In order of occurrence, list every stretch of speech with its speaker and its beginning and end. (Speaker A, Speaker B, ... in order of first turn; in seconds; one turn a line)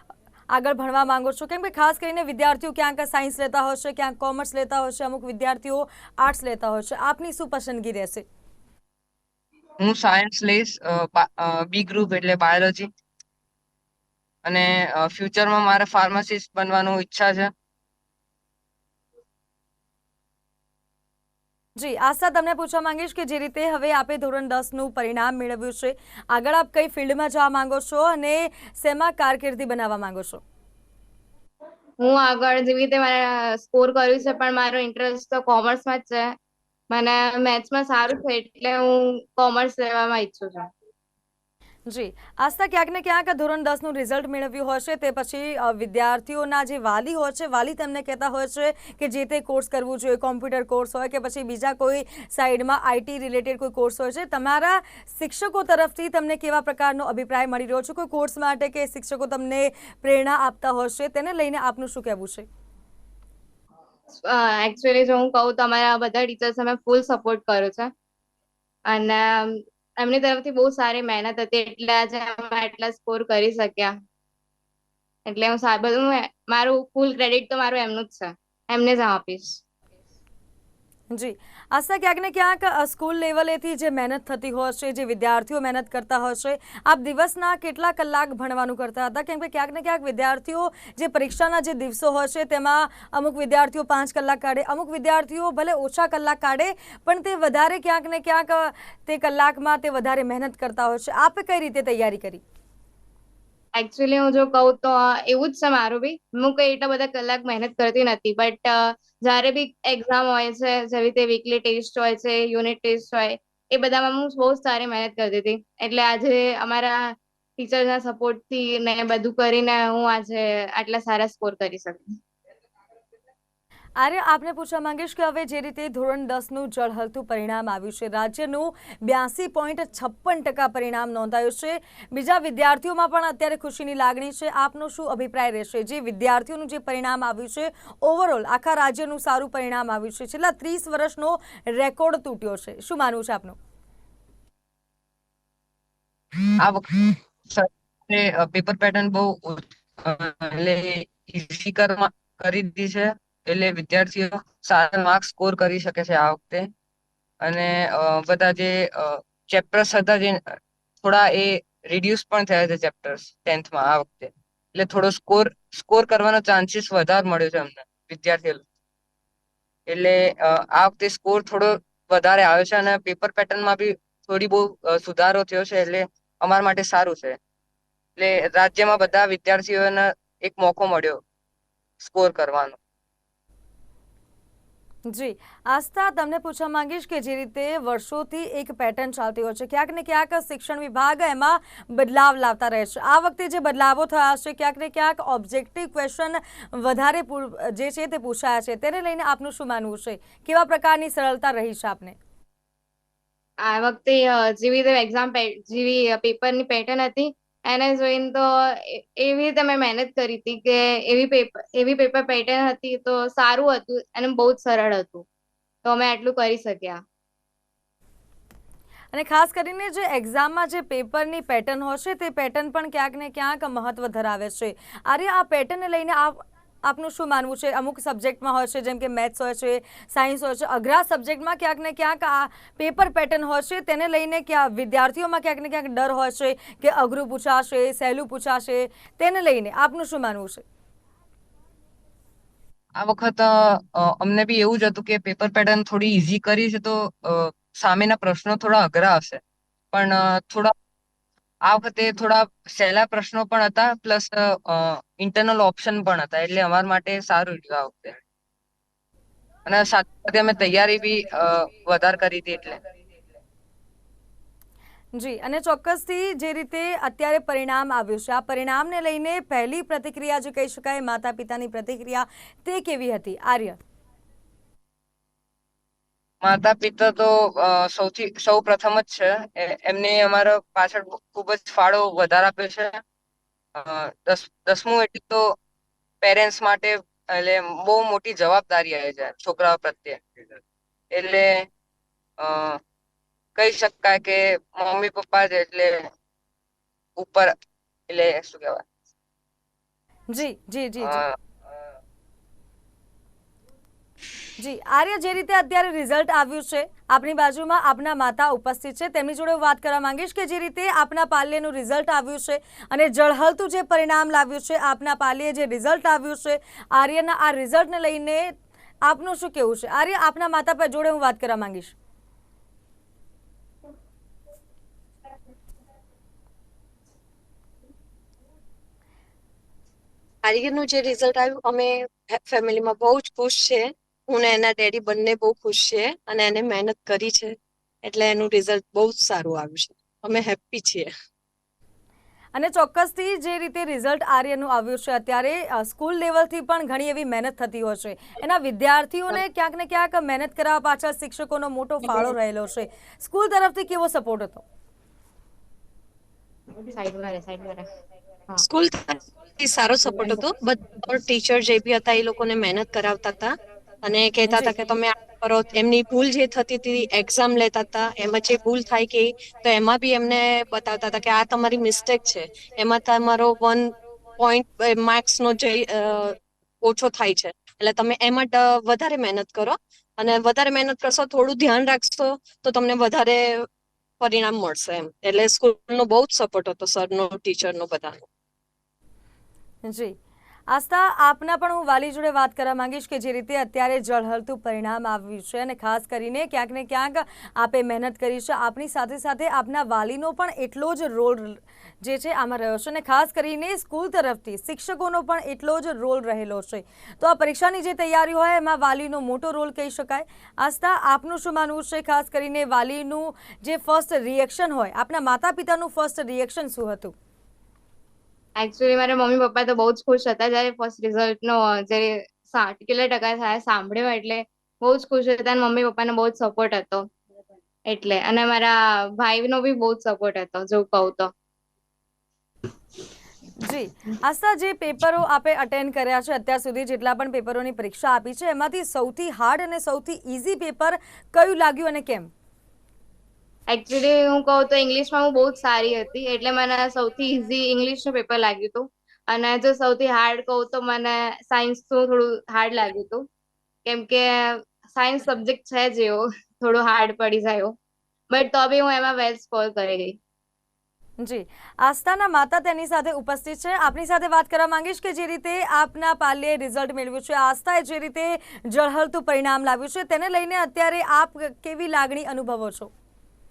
Speaker A: 0.5-8.2
Speaker B: 9.8-12.9
Speaker B: 14.4-17.5
Speaker A: 21.8-30.4
Speaker C: 32.0-36.3
Speaker C: 36.9-40.6
Speaker A: 41.9-62.5
Speaker C: 64.2-67.9
Speaker C: 68.9-73.9
Speaker C: 75.2-79.6
Speaker A: 81.1-102.4
Speaker C: 103.8-122.2
Speaker A: 124.0-143.6
Speaker B: 146.6-156.7
Speaker B: 157.4-168.6
Speaker B: 169.9-177.4
Speaker B: 178.2-181.2
Speaker B: 182.0-182.8
Speaker A: 185.1-202.2
Speaker C: 203.6-215.2
Speaker C: 215.8-217.0
Speaker A: 219.1-240.6
Speaker B: 242.9-249.4
Speaker B: 249.9-250.7
Speaker B: 251.6-258.2
Speaker B: 259.6-262.8
Speaker A: 265.1-273.8
Speaker B: 276.4-283.0
Speaker B: 283.8-285.5
Speaker B: 286.2-290.2
Speaker B: 291.1-291.7
Speaker B: 292.4-292.8
Speaker B: 293.6-296.1
Speaker B: 297.2-297.5
Speaker B: 298.1-298.8
Speaker A: 300.3-301.2
Speaker B: 301.0-301.3
Speaker A: 304.6-318.5
Speaker A: 319.1-321.9
Speaker D: 330.4-341.1
Speaker A: 342.5-354.6
Speaker C: 356.8-357.9
Speaker D: 358.6-383.7
Speaker D: 384.2-388.2
Speaker A: 389.8-390.1
Speaker A: 390.7-417.1
Speaker C: 418.6-427.1
Speaker C: 427.9-431.3
Speaker A: 433.6-442.3
Speaker C: 443.7-453.2
Speaker C: 453.9-457.7
Speaker C: 458.3-460.2
Speaker A: 461.2-472.9